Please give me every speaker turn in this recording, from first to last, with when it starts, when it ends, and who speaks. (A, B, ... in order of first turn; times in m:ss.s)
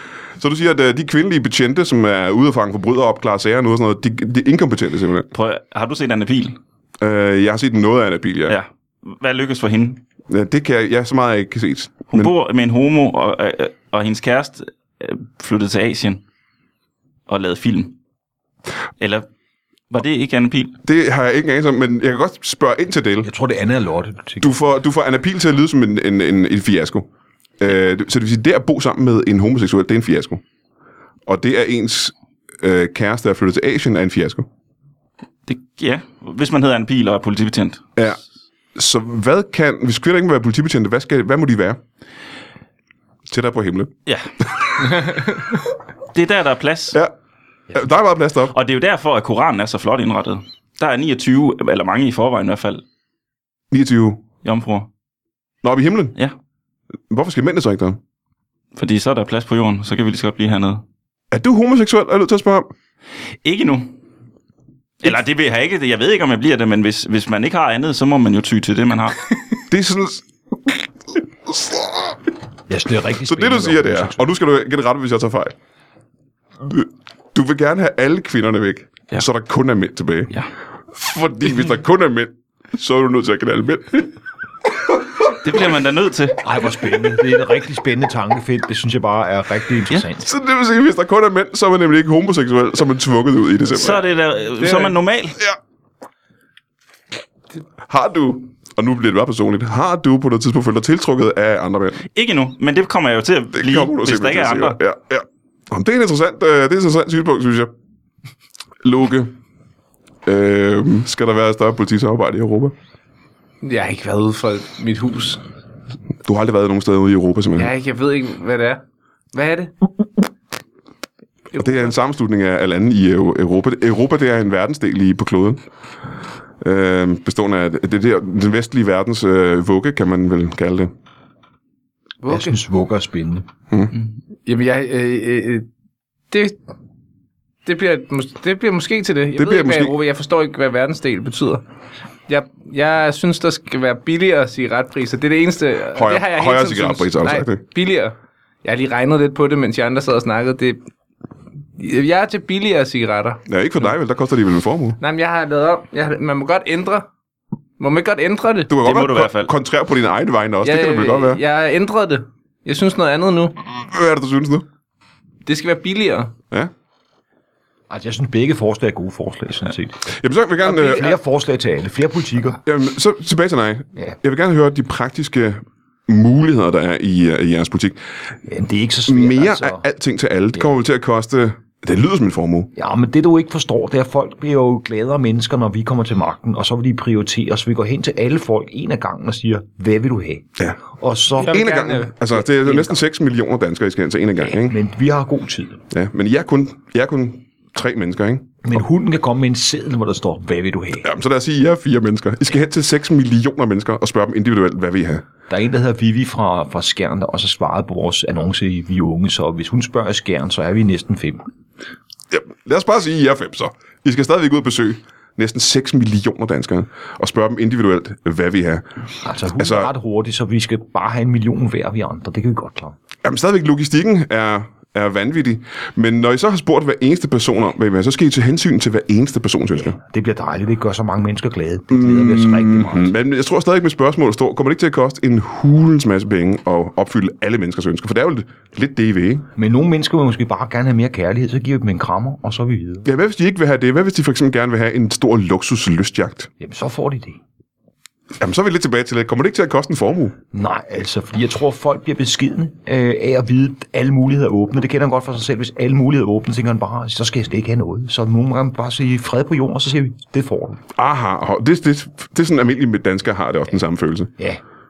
0:00.4-0:05.3 A
0:05.3-0:06.6 B
0:07.0-0:08.6 A
0:08.5-0:10.0 B
0:10.3-0:12.3 A
0:12.1-0:16.2 B
0:17.3-0:18.0 B
0:19.0-0:19.2 B
0:19.9-0:20.8 B
0:20.8-0:23.3 A
0:23.2-0:24.5 C
0:24.4-0:27.1 A
0:27.6-0:30.4 A
0:31.3-0:34.5 A
0:35.5-0:37.8 B
0:38.7-0:41.8 A
0:43.3-0:43.9 A
0:46.1-0:47.0 B
0:47.7-0:48.5 A
0:48.5-0:52.8 B
0:53.7-0:54.2 A
0:54.4-0:54.9 B
0:55.6-0:56.1 A
0:57.1-0:58.0 A
0:58.7-1:00.8 B
1:01.3-1:02.7 A
1:03.4-1:03.9 B
1:05.0-1:09.2 B
1:09.7-1:10.8 A
1:11.5-1:12.1 A
1:12.7-1:14.2 C
1:13.2-1:15.5 A
1:16.6-1:20.3 A
1:20.9-1:24.1 A
1:25.3-1:26.4 B
1:26.4-1:30.3 C
1:30.2-1:34.0 A
1:33.7-1:35.4 B
1:34.6-1:35.0 D
1:37.9-1:42.0 A
1:42.1-1:44.8 B
1:43.5-1:47.7 A
1:48.8-1:49.3 A
1:50.2-1:52.7 A
1:53.6-1:55.4 D
1:56.2-1:57.7 A
1:57.6-1:58.8 D
1:59.3-1:59.7 D
2:01.5-2:05.6 A
2:01.6-2:01.9 D
2:06.6-2:10.9 A
2:12.2-2:12.6 D
2:12.3-2:13.5 C
2:13.9-2:15.6 D
2:16.3-2:16.6 D
2:17.6-2:21.6 D
2:19.4-2:20.0 A
2:22.3-2:30.8 D
2:25.9-2:27.6 A
2:31.8-2:33.4 D
2:33.5-2:35.0 A
2:35.0-2:37.1 D
2:37.8-2:38.7 D
2:38.7-2:41.4 A
2:38.8-2:39.5 B
2:40.6-2:43.5 D
2:43.7-2:44.6 A
2:45.4-2:46.3 D
2:47.9-2:50.0 C
2:50.0-2:51.1 A
2:50.7-2:52.6 C
2:50.7-2:51.1 D
2:52.6-2:58.0 A
2:58.5-2:59.8 C
2:59.1-3:02.7 A
3:02.7-3:11.8 C
3:11.4-3:12.1 D
3:11.4-3:14.8 A
3:12.4-3:13.0 C
3:14.4-3:15.8 C
3:15.9-3:18.6 A
3:18.6-3:21.1 C
3:21.0-3:25.2 A
3:25.5-3:31.5 C
3:32.3-3:39.0 A
3:39.2-3:43.0 C
3:39.5-3:39.9 A
3:43.2-3:50.0 A
3:49.8-3:53.1 C
3:51.9-3:59.5 A
3:59.5-4:03.1 C
4:03.0-4:06.5 A
4:06.6-4:07.4 C
4:08.4-4:10.4 A
4:10.5-4:20.8 C
4:21.0-4:24.3 A